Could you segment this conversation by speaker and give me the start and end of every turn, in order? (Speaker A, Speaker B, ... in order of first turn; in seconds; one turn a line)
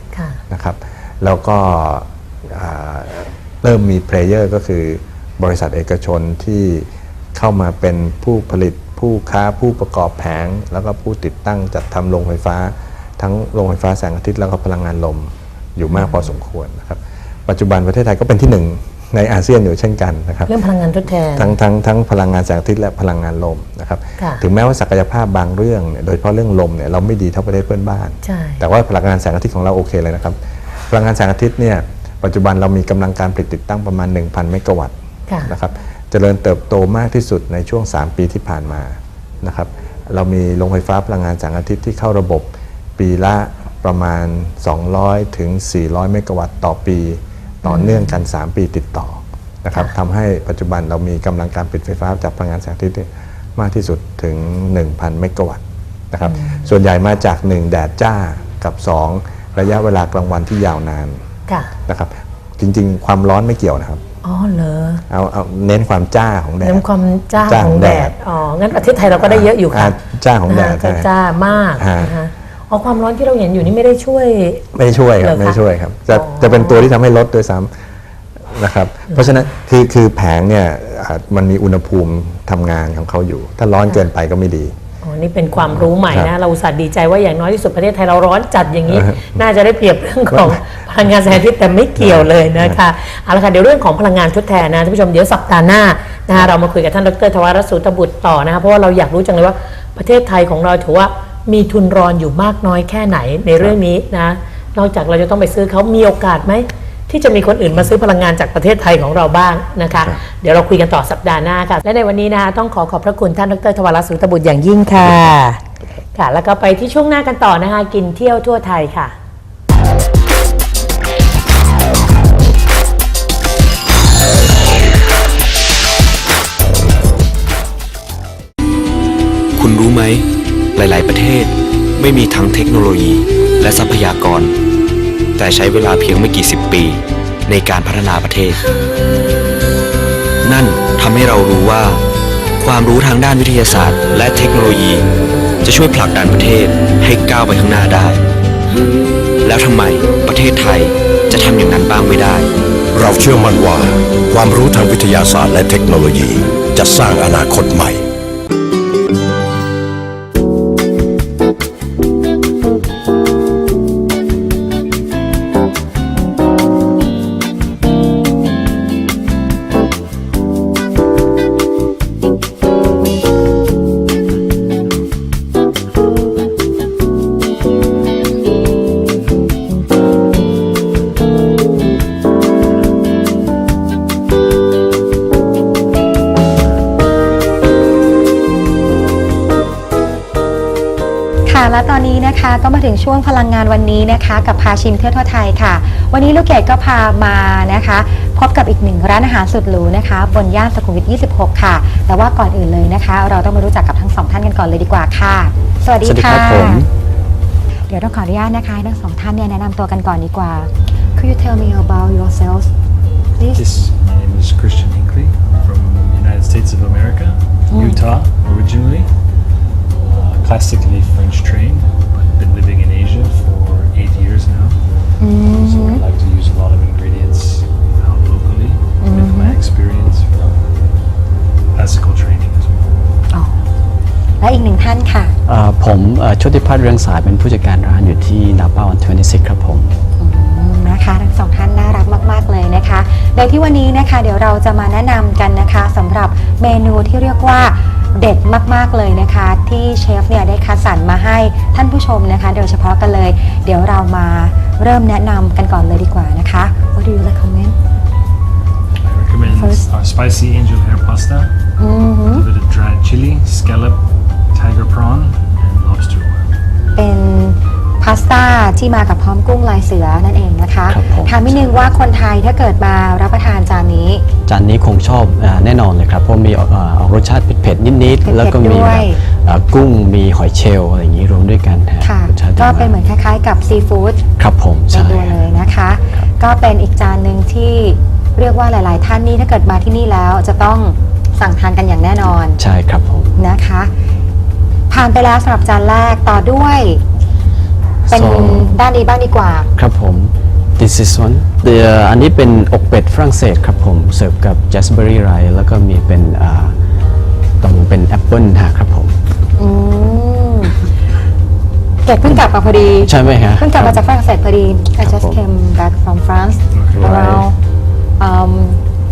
Speaker A: 0.1-0.4
Speaker B: 0.5-20.6
Speaker A: 15.9-16.3
Speaker A: 20.5-21.5
Speaker B: 21.3-61.2
Speaker A: 24.2-24.4
Speaker A: 28.2-28.6
Speaker A: 35.3-35.5
Speaker A: 47.6-48.2
Speaker A: 56.2-56.7
Speaker A: 61.5-61.7
Speaker B: 61.9-64.0
Speaker A: 64.2-65.0
Speaker B: 65.1-66.8
Speaker A: 66.6-74.7
Speaker B: 67.4-68.1
Speaker B: 69.1-71.1
Speaker B: 71.8-72.1
Speaker B: 74.7-77.7
Speaker A: 75.2-75.6
Speaker A: 76.1-76.9
Speaker B: 78.5-84.8
Speaker A: 85.0-115.6
Speaker B: 85.6-86.3
Speaker B: 88.9-89.2
Speaker B: 90.3-90.6
Speaker B: 92.0-92.8
Speaker B: 110.0-110.2
Speaker A: 116.1-119.2
Speaker C: 129.6-134.5
Speaker C: 135.4-138.6
Speaker C: 140.4-142.0
Speaker C: 142.6-145.1
Speaker C: 145.6-148.2
Speaker C: 149.4-152.5
Speaker D: 152.9-158.1
Speaker E: 191.5-206.9
Speaker F: 206.0-206.9
Speaker E: 207.9-212.7
Speaker E: 213.4-213.8
Speaker G: 213.5-219.1
Speaker E: 217.7-218.0
Speaker G: 220.0-224.8
Speaker E: 225.2-226.0
Speaker G: 225.5-230.7
Speaker E: 229.0-229.6
Speaker G: 231.8-233.1
Speaker E: 233.3-233.6
Speaker E: 234.4-235.3
Speaker F: 235.5-239.9
Speaker E: 240.2-257.8
Speaker G: 259.0-261.5
Speaker E: 259.5-259.9
Speaker E: 261.8-262.5
Speaker G: 262.3-266.6
Speaker E: 267.0-274.3
Speaker F: 270.9-271.7
Speaker F: 274.5-283.0
Speaker E: 278.2-279.2
Speaker E: 282.0-284.3
Speaker F: 284.4-285.5
Speaker E: 284.9-292.6
Speaker F: 292.6-293.3
Speaker E: 293.4-293.9
Speaker E: 294.9-297.0
Speaker F: 298.1-298.8
Speaker E: 298.1-299.7
Speaker F: 299.8-306.8
Speaker F: 307.6-309.2
Speaker E: 309.6-310.8
Speaker E: 312.1-317.6
Speaker F: 313.0-314.1
Speaker F: 315.0-315.4
Speaker G: 316.7-317.1
Speaker F: 316.9-317.5
Speaker E: 318.2-318.8